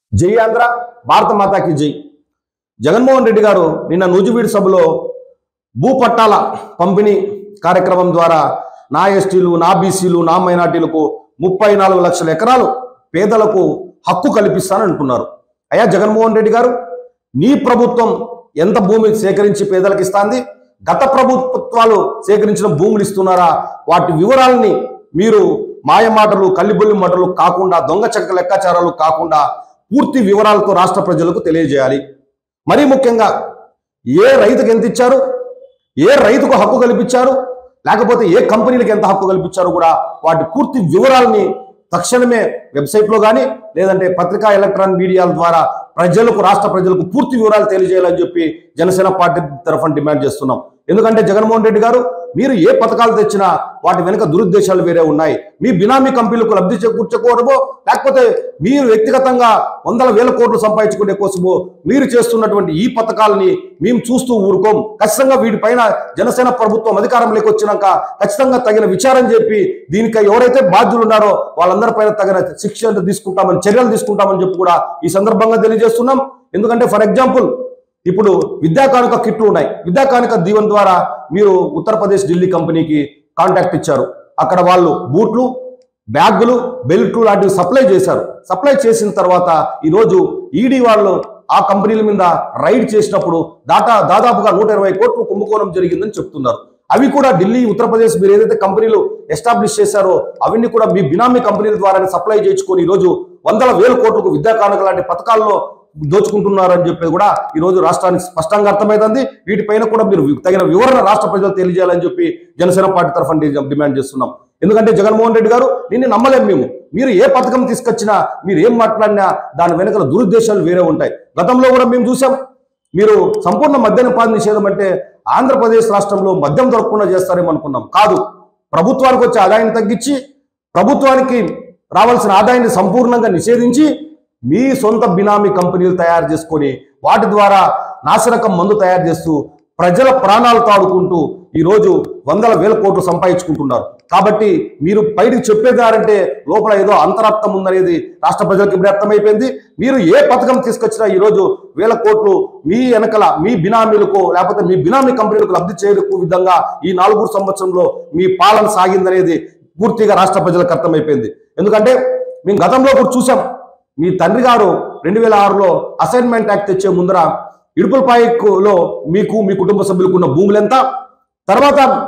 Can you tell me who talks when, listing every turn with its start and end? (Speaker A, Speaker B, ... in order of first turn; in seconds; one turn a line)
Speaker A: 0.2-1.9
Speaker A: 2.8-4.9
Speaker A: 5.8-16.7
Speaker A: 17.4-32.0
Speaker A: 32.7-33.3
Speaker A: 34.1-35.2
Speaker A: 36.0-77.5
Speaker A: 78.0-85.5
Speaker A: 86.1-105.6
Speaker A: 106.1-122.4
Speaker A: 122.9-128.2
Speaker A: 128.7-130.2
Speaker A: 130.7-133.9
Speaker A: 134.5-163.4
Speaker A: 164.0-170.8
Speaker A: 171.5-171.9